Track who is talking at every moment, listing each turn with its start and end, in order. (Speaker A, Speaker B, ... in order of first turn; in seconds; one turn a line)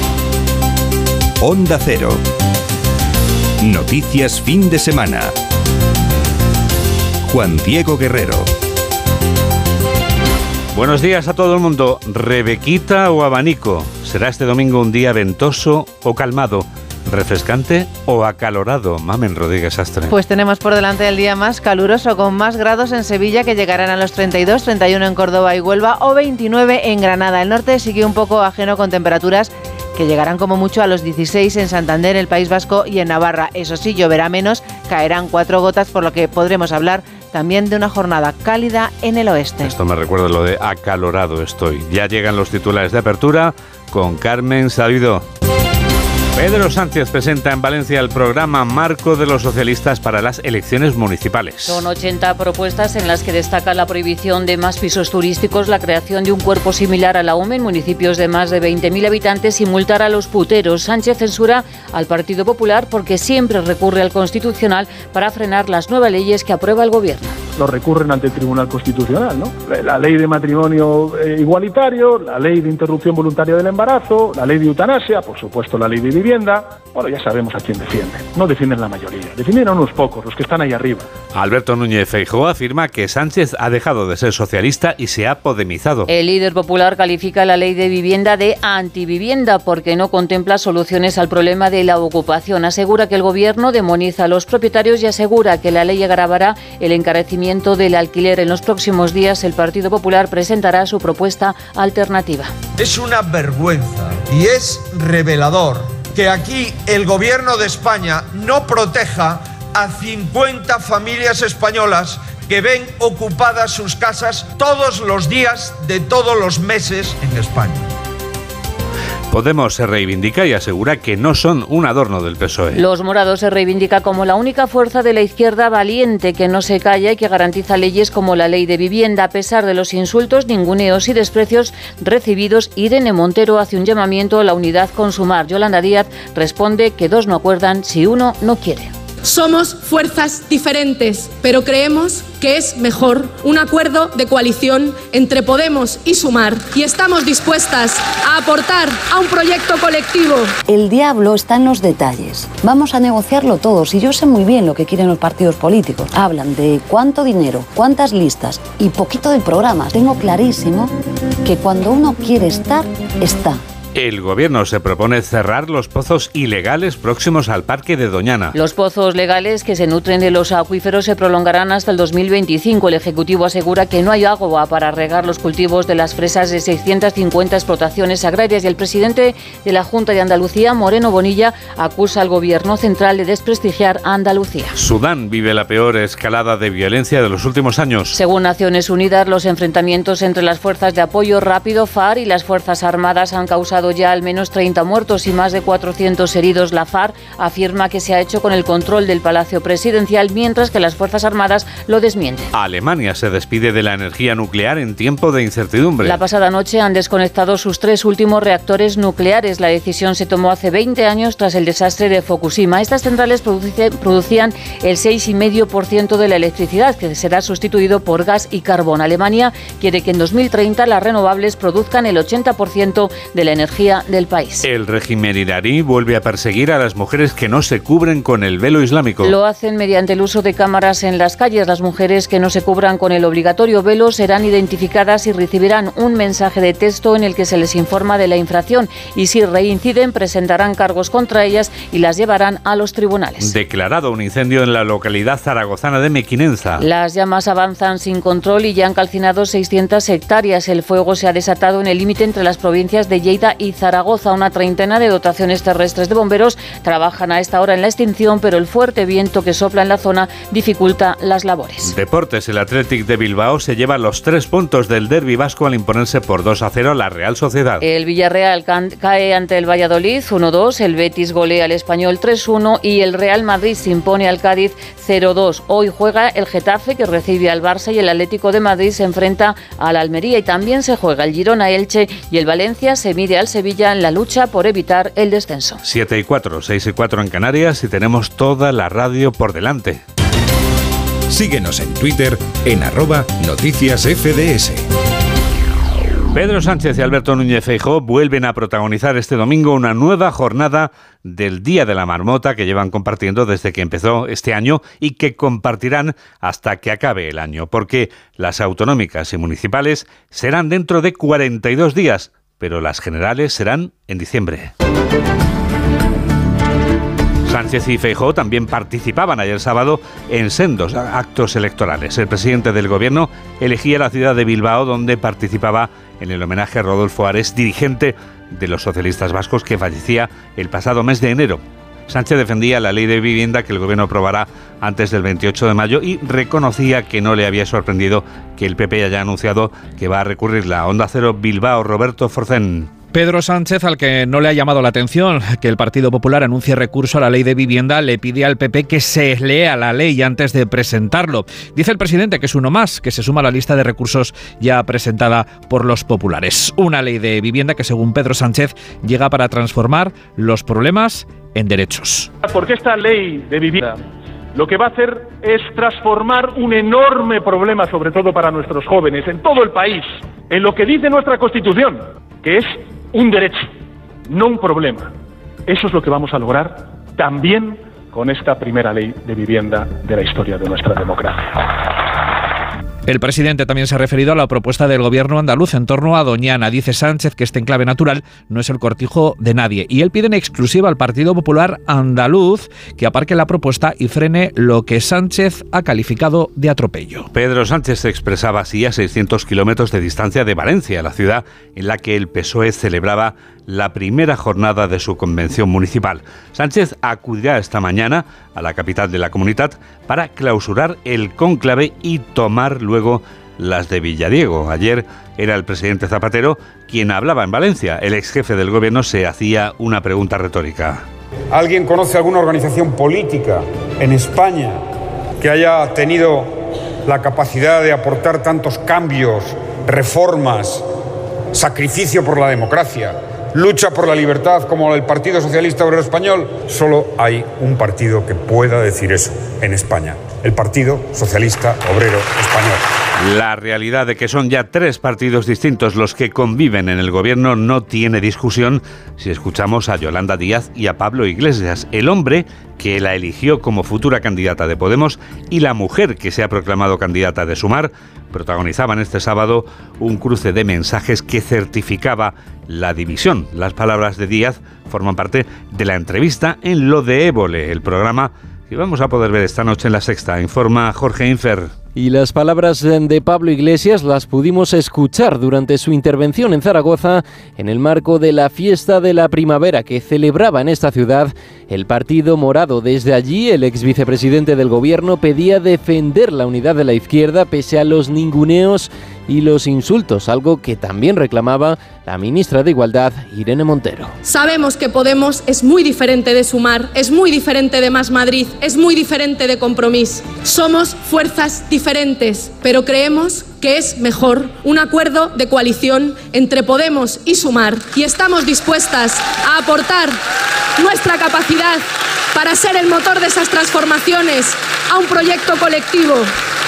Speaker A: 1.4-2.2
Speaker A: 3.6-5.3
Speaker A: 7.2-8.5
Speaker B: 10.7-20.2
Speaker C: 20.1-39.7
Speaker B: 39.6-45.2
Speaker B: 46.4-51.8
Speaker D: 51.7-67.4
Speaker E: 67.6-81.1
Speaker B: 81.3-86.1
Speaker D: 86.1-102.5
Speaker F: 102.8-117.9
Speaker B: 119.3-122.8
Speaker D: 122.8-138.9
Speaker G: 139.2-150.5
Speaker H: 150.7-160.9
Speaker H: 161.4-163.6
Speaker B: 163.9-168.6
Speaker D: 168.6-184.7
Speaker B: 184.8-188.2
Speaker D: 188.1-202.5
Speaker B: 202.5-206.2
Speaker D: 206.0-224.7
Speaker B: 224.6-229.3
Speaker D: 229.2-243.5
Speaker B: 243.4-246.8
Speaker D: 246.8-261.9
Speaker B: 261.8-267.8
Speaker D: 267.8-285.8
Speaker B: 285.8-290.0
Speaker A: 291.3-294.8
Speaker B: 296.3-314.7
Speaker B: 317.5-342.9
Speaker I: 343.1-362.3
Speaker E: 362.4-364.0
Speaker E: 364.6-373.7
Speaker E: 374.3-375.1
Speaker E: 375.7-381.6
Speaker I: 383.1-397.3
Speaker B: 397.3-421.1
Speaker J: 421.5-424.8
Speaker J: 425.4-430.9
Speaker J: 431.5-442.9
Speaker B: 443.2-471.7
Speaker K: 472.0-494.1
Speaker G: 494.2-510.2
Speaker G: 510.8-516.3